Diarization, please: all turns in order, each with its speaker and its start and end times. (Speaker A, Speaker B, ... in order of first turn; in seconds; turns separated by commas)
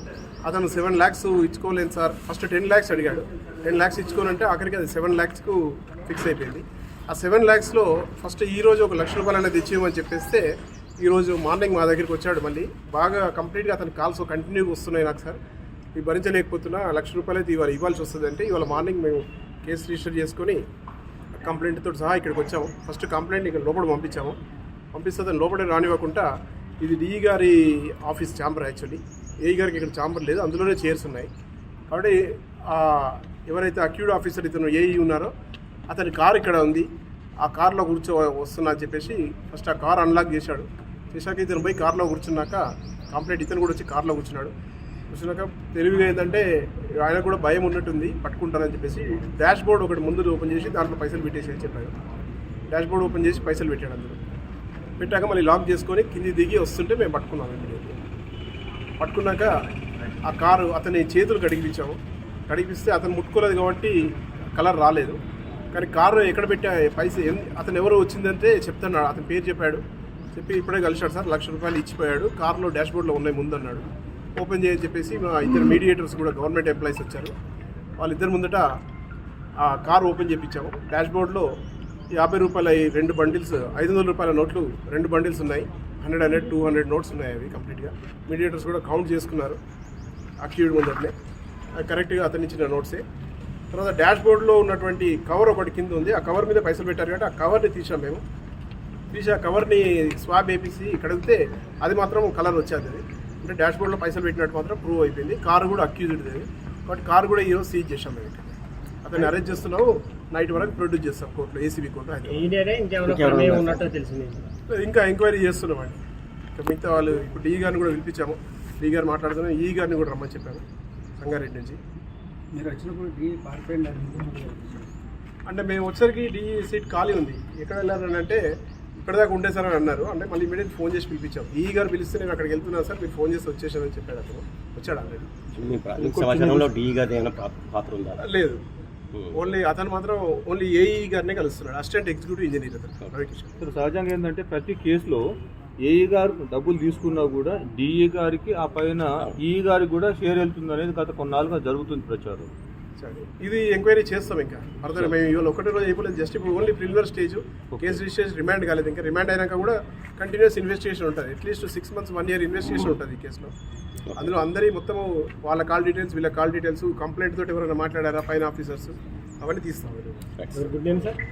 Speaker A: 0.4-10.4, Speaker A: 11.0-15.4, Speaker A: 15.9-20.6, Speaker A: 21.4-24.4, Speaker A: 24.9-26.3, Speaker A: 26.8-31.3, Speaker A: 31.9-35.3, Speaker A: 35.9-36.9, Speaker A: 37.4-44.5, Speaker A: 45.1-51.9, Speaker A: 52.7-54.2, Speaker A: 55.0-57.9, Speaker A: 59.0-59.6, Speaker A: 60.2-64.0, Speaker A: 64.5-65.2, Speaker A: 65.7-69.8, Speaker A: 70.3-77.3, Speaker A: 78.0-78.7, Speaker A: 79.6-81.5, Speaker A: 82.1-89.6, Speaker A: 90.4-91.1, Speaker A: 91.8-93.0, Speaker A: 93.7-98.2, Speaker A: 99.1-108.5, Speaker A: 109.0-112.5, Speaker B: 112.3-114.5, Speaker C: 113.0-113.9, Speaker A: 114.7-116.0, Speaker A: 116.5-120.6, Speaker A: 121.2-121.8, Speaker D: 122.5-124.9, Speaker A: 125.5-128.4, Speaker A: 129.0-136.7, Speaker C: 135.6-138.2, Speaker A: 138.2-138.6, Speaker C: 139.1-139.4, Speaker A: 139.3-143.6, Speaker E: 143.6-145.2, Speaker E: 145.8-152.5, Speaker A: 153.0-163.5, Speaker C: 164.1-164.3, Speaker A: 164.2-170.3, Speaker C: 170.4-170.8, Speaker B: 170.5-171.2